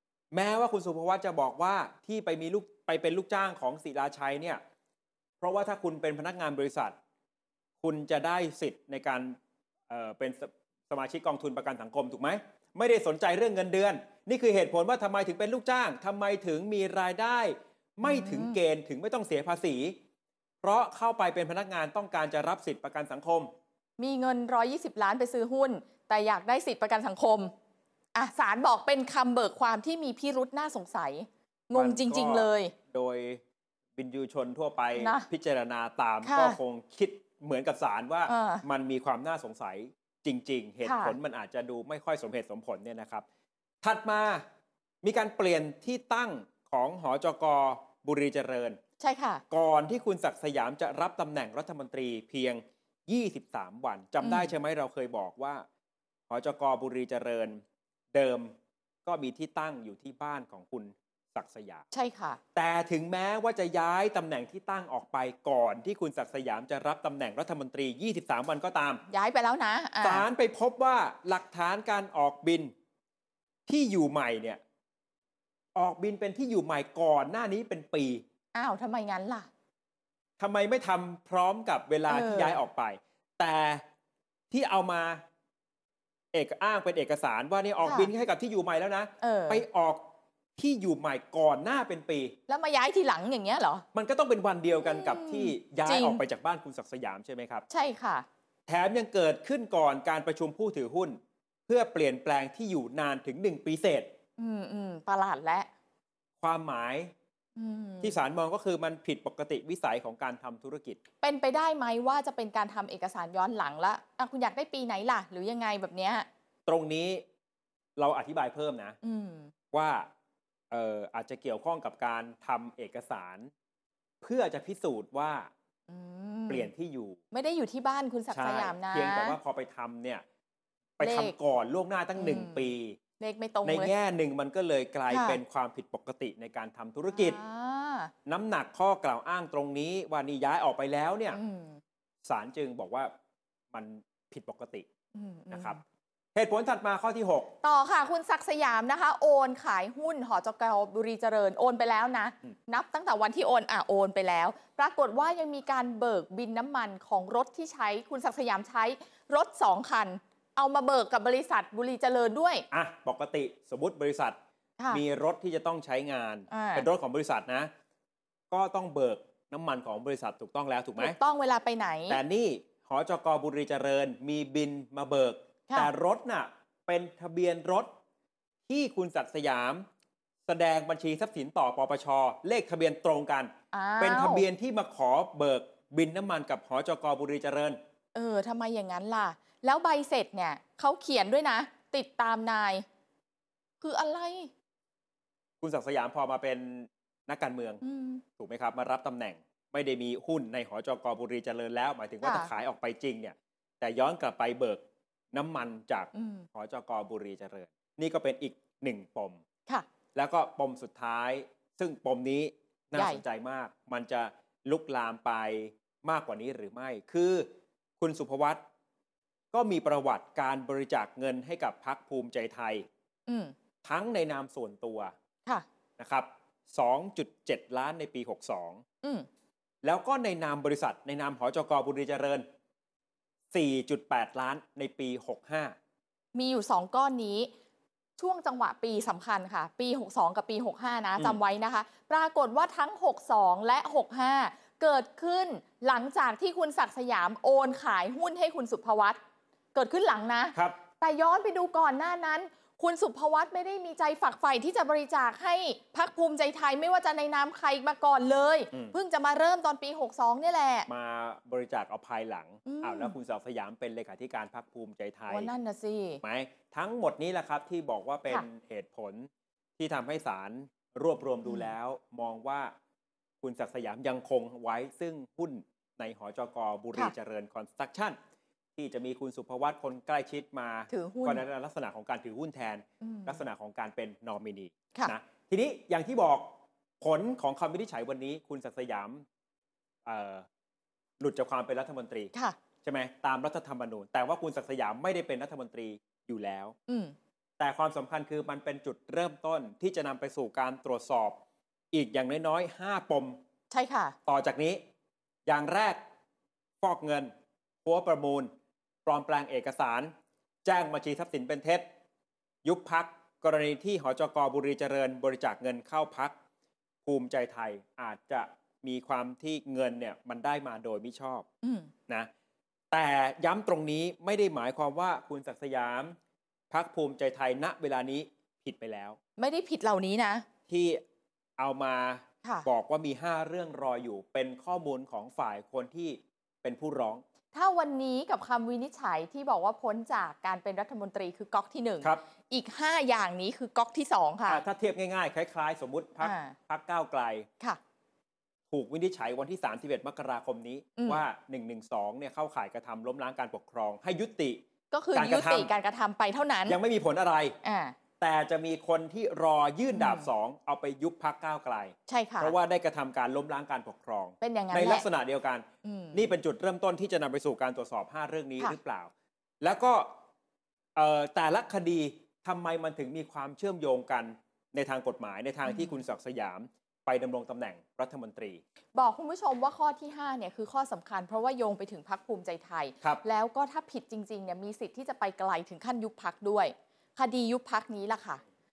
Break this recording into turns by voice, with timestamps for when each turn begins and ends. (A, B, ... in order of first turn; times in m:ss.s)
0:00.3-0:04.6 A
0:05.4-0:07.0 A
0:07.8-0:09.4 A
0:09.9-0:20.0 A
0:18.0-0:18.6 B
0:20.6-0:23.5 A
0:24.0-0:27.5 B
0:28.1-0:32.7 B
0:31.7-0:33.4 A
0:34.0-0:43.2 A
0:35.0-0:35.3 B
0:36.2-0:36.6 B
0:38.3-0:38.6 B
0:40.8-0:41.2 B
0:43.8-0:44.4 A
0:45.0-0:48.8 A
0:49.0-0:49.4 B
0:49.5-0:55.6 A
0:54.2-0:54.5 B
0:56.3-0:57.6 A
0:58.1-1:01.8 A
1:01.9-1:02.4 B
1:02.5-1:09.0 A
1:09.1-1:10.2 B
1:10.0-1:12.7 A
1:13.7-1:14.6 A
1:15.7-1:18.2 A
1:18.5-1:19.5 B
1:20.4-1:23.8 A
1:22.1-1:22.6 B
1:24.5-1:25.2 A
1:26.3-1:32.4 A
1:27.8-1:28.1 B
1:29.2-1:29.6 B
1:32.5-1:33.8 B
1:33.9-1:37.6 A
1:34.8-1:36.2 B
1:37.7-1:38.2 B
1:38.7-1:44.1 A
1:44.4-1:45.7 B
1:46.4-1:47.1 A
1:47.6-1:48.2 B
1:48.0-1:51.0 A
1:51.2-1:56.3 B
1:56.6-1:57.2 A
1:58.0-1:59.0 A
1:59.0-1:59.5 B
1:59.7-2:00.1 A
2:00.7-2:03.5 A
2:04.2-2:05.5 A
2:05.9-2:06.7 B
2:06.5-2:07.2 A
2:07.3-2:09.4 B
2:08.3-2:10.2 A
2:11.0-2:13.0 A
2:11.0-2:11.3 B
2:12.2-2:12.6 B
2:13.2-2:13.9 B
2:13.6-2:17.4 A
2:15.1-2:15.4 B
2:17.1-2:18.1 B
2:18.2-2:21.4 A
2:21.3-2:21.8 B
2:22.2-2:23.1 A
2:23.7-2:24.8 A
2:25.1-2:25.8 B
2:25.5-2:25.8 A
2:26.3-2:27.5 A
2:27.6-2:42.6 B
2:42.7-2:44.4 A
2:44.9-2:47.7 A
2:46.5-2:46.9 B
2:48.5-2:51.2 A
2:51.0-2:52.2 B
2:52.1-2:57.9 A
2:58.7-2:59.9 A
3:00.4-3:07.8 A
3:03.7-3:04.4 B
3:08.1-3:12.8 B
3:13.8-3:14.5 B
3:15.6-3:17.8 A
3:17.8-3:18.2 B
3:18.4-3:24.8 A
3:22.2-3:22.5 B
3:25.3-3:29.4 A
3:26.1-3:26.5 B
3:30.1-3:38.6 A
3:32.9-3:33.2 B
3:39.5-3:42.9 A
3:43.3-3:43.5 B
3:43.8-3:45.1 A
3:46.0-3:48.8 A
3:49.8-3:52.5 A
3:53.5-3:55.8 A
3:56.3-3:57.5 B
3:58.2-4:09.2 B
4:09.7-4:20.9 B
4:10.5-4:10.8 A
4:20.9-4:25.5 A
4:22.6-4:23.1 B
4:25.3-4:26.2 B
4:26.2-4:32.7 A
4:33.4-4:38.2 A
4:38.8-4:49.2 A
4:40.9-4:41.4 B
4:43.0-4:43.4 B
4:50.0-4:50.4 A
4:51.2-4:52.3 A
4:52.8-4:56.7 A
4:56.9-4:57.1 B
4:57.6-5:01.4 A
5:01.9-5:03.4 A
5:03.7-5:04.1 B
5:04.3-5:04.8 A
5:05.4-5:06.0 A
5:06.8-5:07.3 A
5:07.8-5:08.5 A
5:09.0-5:10.1 A
5:10.6-5:11.9 A
5:12.6-5:16.4 A
5:17.0-5:21.4 A
5:21.6-5:21.9 B
5:22.9-5:26.2 A
5:26.7-5:29.2 A
5:29.4-5:30.4 B
5:30.7-5:31.0 A
5:31.6-5:37.2 A
5:37.5-5:44.6 B
5:44.5-5:47.5 A
5:46.2-5:46.6 B
5:48.7-5:54.6 A
5:51.0-5:51.2 B
5:54.9-5:56.8 B
5:55.1-5:55.7 A
5:56.7-5:57.6 A
5:57.6-5:58.0 B
5:58.2-6:10.1 A
5:59.9-6:00.3 B
6:02.1-6:02.5 B
6:04.4-6:05.0 B
6:05.8-6:06.3 B
6:11.0-6:18.6 A
6:15.6-6:16.0 B
6:18.9-6:28.4 B